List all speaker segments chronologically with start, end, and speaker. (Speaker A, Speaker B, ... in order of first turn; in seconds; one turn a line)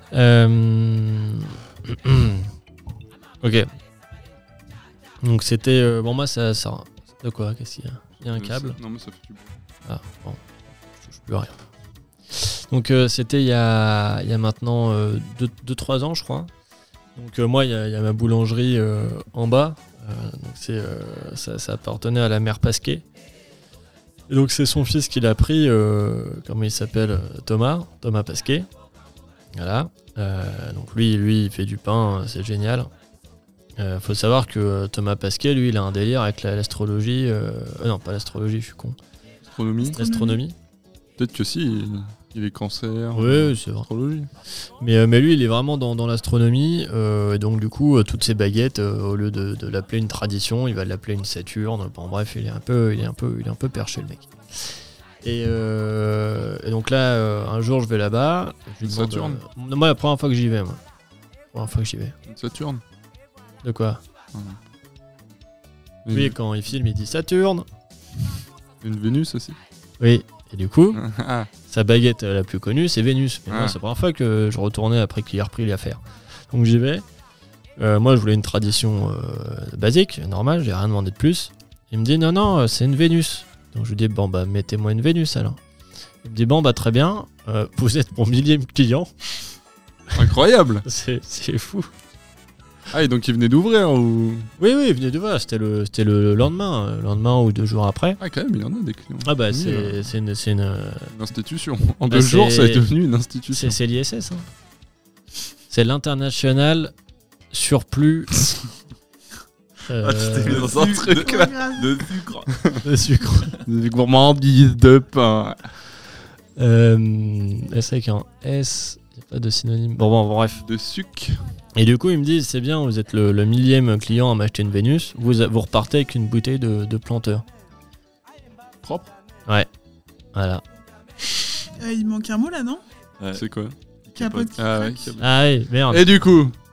Speaker A: 0.1-2.5
Speaker A: 3.4-3.7
Speaker A: 5.2-8.8
Speaker B: 8.3-9.6
Speaker A: 9.9-10.4
Speaker A: 11.0-11.6
Speaker A: 12.3-16.5
Speaker A: 17.2-23.1
Speaker A: 24.3-28.7
Speaker A: 29.5-32.9
Speaker A: 33.8-39.0
Speaker B: 39.4-40.0
Speaker C: 39.8-40.4
Speaker A: 39.9-40.6
Speaker B: 41.2-44.3
Speaker A: 43.1-43.9
Speaker A: 44.8-60.8
Speaker B: 58.8-59.4
Speaker A: 61.5-62.1
Speaker B: 62.3-62.8
Speaker A: 63.6-64.0
Speaker B: 66.0-66.3
Speaker A: 66.1-67.7
Speaker B: 68.8-69.6
Speaker A: 70.0-71.0
Speaker B: 70.9-71.5
Speaker A: 71.7-77.0
Speaker B: 73.5-73.8
Speaker A: 77.8-85.6
Speaker A: 86.2-89.1
Speaker B: 90.2-90.8
Speaker A: 90.8-91.9
Speaker B: 92.9-94.5
Speaker A: 94.6-98.2
Speaker B: 98.2-100.1
Speaker A: 99.2-101.1
Speaker B: 101.1-103.8
Speaker A: 102.1-102.9
Speaker A: 103.5-104.5
Speaker A: 105.7-106.9
Speaker A: 107.5-108.5
Speaker A: 109.9-110.7
Speaker D: 110.0-112.7
Speaker B: 110.4-111.5
Speaker C: 111.2-111.9
Speaker A: 112.8-113.6
Speaker B: 113.6-115.7
Speaker A: 116.6-120.6
Speaker B: 120.6-121.4
Speaker A: 121.8-127.5
Speaker B: 128.8-129.1
Speaker A: 130.3-130.6
Speaker C: 131.8-132.8
Speaker D: 133.2-133.5
Speaker B: 133.3-133.8
Speaker D: 134.1-134.5
Speaker C: 134.2-135.1
Speaker B: 134.6-135.2
Speaker A: 135.2-136.3
Speaker B: 135.9-136.6